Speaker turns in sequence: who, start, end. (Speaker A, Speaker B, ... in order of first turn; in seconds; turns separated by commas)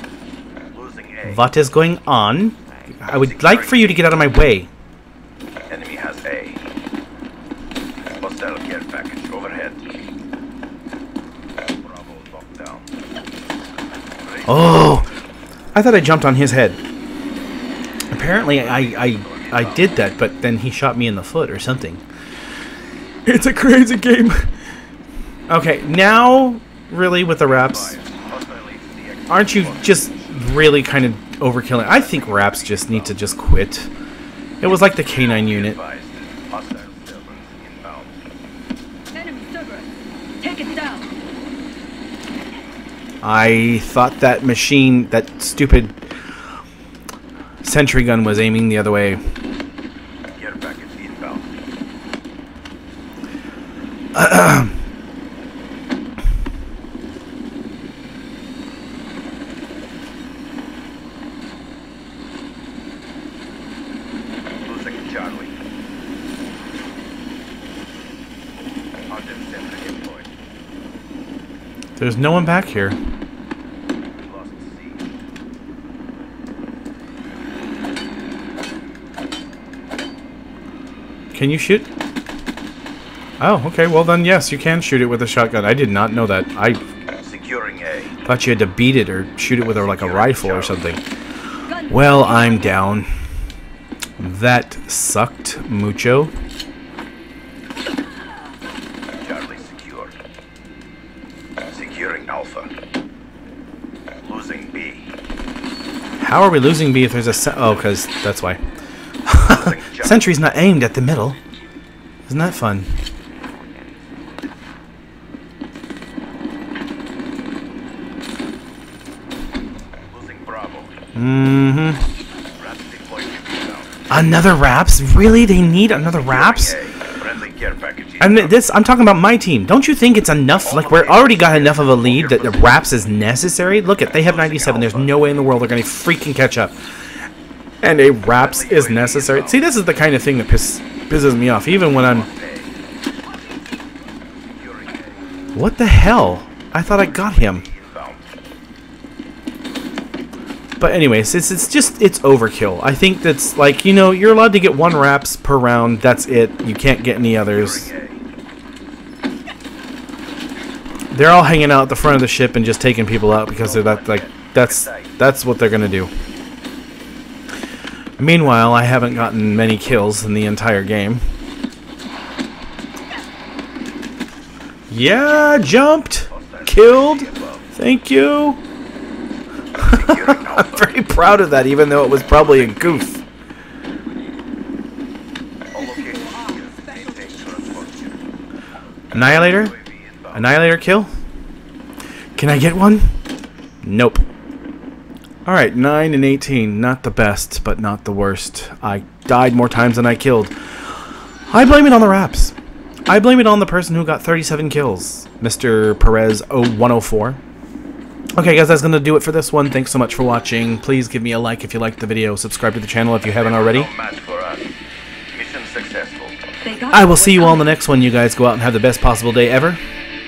Speaker A: 0.7-1.5, Speaker B: 1.2-4.7, Speaker A: 3.2-4.0, Speaker A: 5.7-6.6, Speaker A: 8.1-9.8, Speaker A: 11.8-12.9, Speaker A: 14.2-15.0, Speaker B: 14.5-15.1, Speaker B: 15.7-16.8, Speaker B: 18.1-22.0, Speaker A: 18.4-20.0, Speaker B: 23.2-24.5, Speaker B: 25.5-28.0, Speaker A: 27.4-30.4, Speaker B: 29.3-33.9, Speaker A: 31.9-33.3, Speaker B: 34.6-35.8, Speaker A: 35.3-38.1, Speaker C: 39.1-39.9, Speaker C: 40.4-41.1, Speaker B: 43.2-45.9, Speaker B: 47.6-49.2, Speaker A: 50.3-51.5, Speaker B: 54.1-54.8, Speaker A: 64.6-65.5, Speaker A: 69.1-70.3, Speaker B: 72.0-73.0, Speaker A: 74.2-75.0, Speaker B: 81.3-81.9, Speaker B: 83.4-86.8, Speaker A: 87.2-88.1, Speaker B: 88.2-91.0, Speaker A: 89.8-90.9, Speaker C: 91.7-92.0, Speaker B: 91.9-93.1, Speaker B: 94.2-96.3, Speaker A: 99.2-100.1, Speaker A: 101.7-102.7, Speaker A: 104.2-105.1, Speaker B: 106.2-108.6, Speaker B: 109.2-111.4, Speaker A: 109.5-110.3, Speaker B: 112.3-113.0, Speaker A: 120.1-120.9, Speaker B: 121.1-122.0, Speaker A: 122.5-124.0, Speaker B: 124.1-126.8, Speaker A: 126.1-128.6, Speaker B: 128.2-136.8, Speaker A: 130.6-132.8, Speaker A: 134.2-135.2, Speaker B: 137.8-142.3, Speaker A: 138.4-139.6, Speaker A: 141.7-142.7, Speaker A: 144.5-145.2, Speaker B: 145.5-147.7, Speaker A: 146.9-148.3, Speaker B: 150.8-157.9, Speaker A: 157.4-158.2, Speaker B: 161.1-166.1, Speaker A: 163.6-165.1, Speaker B: 168.2-171.2, Speaker B: 174.9-178.6, Speaker A: 176.3-177.7, Speaker B: 179.8-183.2, Speaker A: 179.8-180.9, Speaker A: 182.3-183.1, Speaker A: 185.7-188.2, Speaker C: 186.0-186.9, Speaker B: 189.1-189.7, Speaker A: 189.1-190.5, Speaker B: 190.3-191.1, Speaker B: 192.3-193.2, Speaker B: 193.8-194.2, Speaker B: 195.4-200.8, Speaker B: 201.5-202.5, Speaker B: 203.1-207.4, Speaker B: 208.3-213.9, Speaker A: 213.3-214.8, Speaker A: 215.3-216.4, Speaker C: 216.6-217.6, Speaker B: 216.9-219.8